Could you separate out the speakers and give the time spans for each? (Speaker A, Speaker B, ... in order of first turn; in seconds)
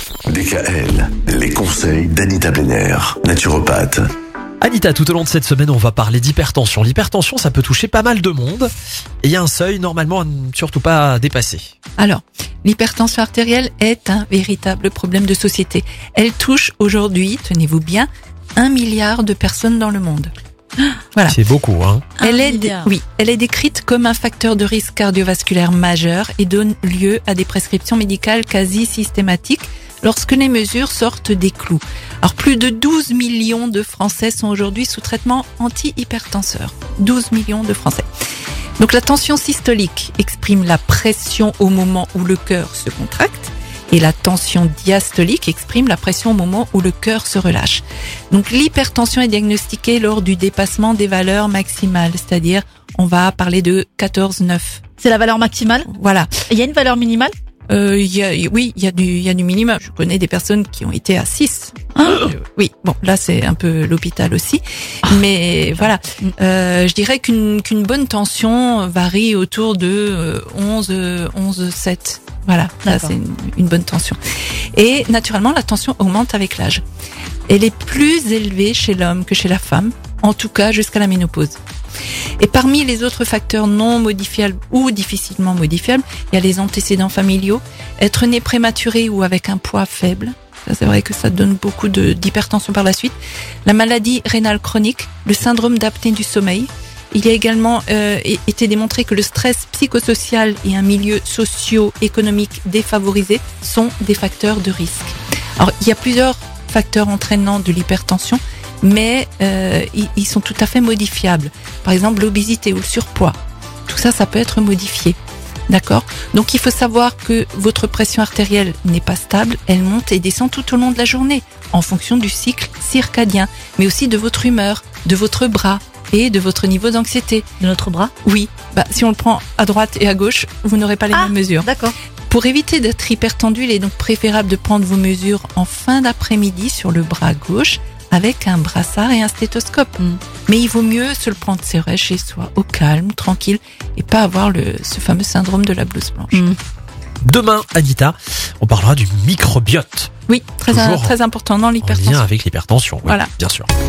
Speaker A: 0.3-4.1
Speaker B: 4.6-8.7, 9.2-11.7, 21.3-22.1, 147.2-150.1, 150.7-151.1, 151.8-153.7
Speaker C: 12.0-20.3, 22.2-38.0, 38.8-55.0, 55.9-56.4, 57.7-74.2, 74.7-76.8, 77.5-81.6, 82.4-113.4, 113.9-115.2, 115.7-127.5, 128.2-131.7, 132.3-146.5, 150.3-152.3, 153.0-153.3
Speaker D: 22.2-22.9, 55.0-55.9, 56.4-57.3, 72.8-73.1, 127.6-128.1, 131.1-131.9, 146.3-146.6